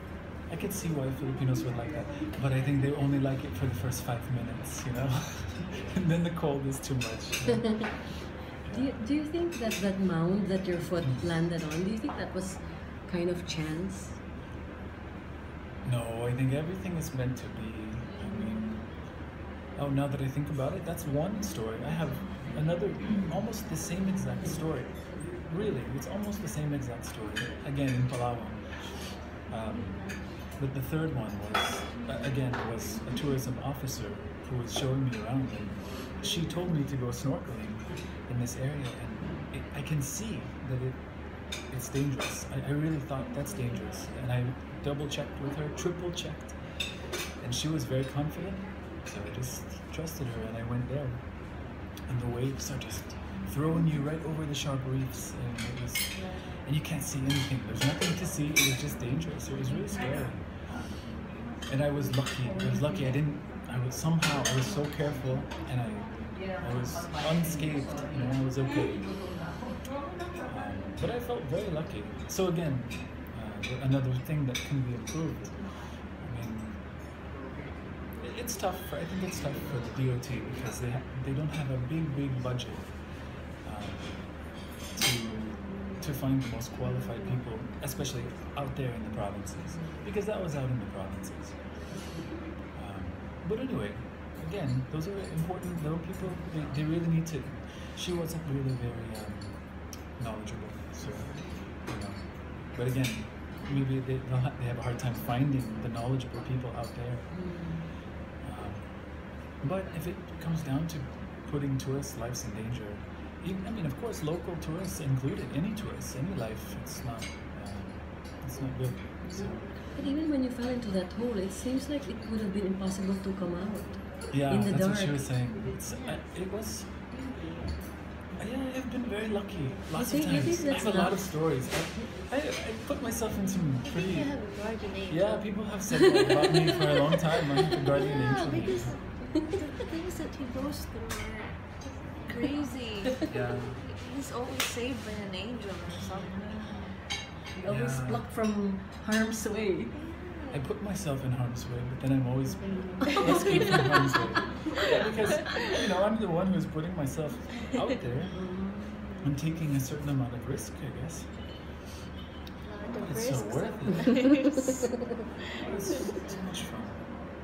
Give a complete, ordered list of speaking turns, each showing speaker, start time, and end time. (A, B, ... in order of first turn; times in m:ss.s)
0:00.5-0:09.1 A
0:08.7-0:14.2 B
0:11.0-0:11.3 A
0:15.8-1:01.1 A
1:01.7-1:09.6 A
1:10.4-1:17.0 A
1:18.2-1:32.2 A
1:32.8-1:47.9 A
1:47.3-1:47.8 B
1:48.4-1:59.7 A
1:59.2-2:05.3 B
2:04.3-2:07.2 A
2:05.9-2:06.2 C
2:07.1-2:07.8 C
2:08.4-2:19.0 A
2:09.9-2:11.3 B
2:13.8-2:16.0 C
2:18.0-2:26.9 C
2:23.3-2:23.8 A
2:27.5-2:30.0 B
2:27.6-2:28.3 A
2:29.9-2:30.7 C
2:30.5-2:41.8 A
2:33.2-2:33.6 B
2:33.3-2:33.7 C
2:38.3-2:39.3 B
2:42.6-2:45.1 C
2:43.0-2:44.4 A
2:45.6-2:47.1 A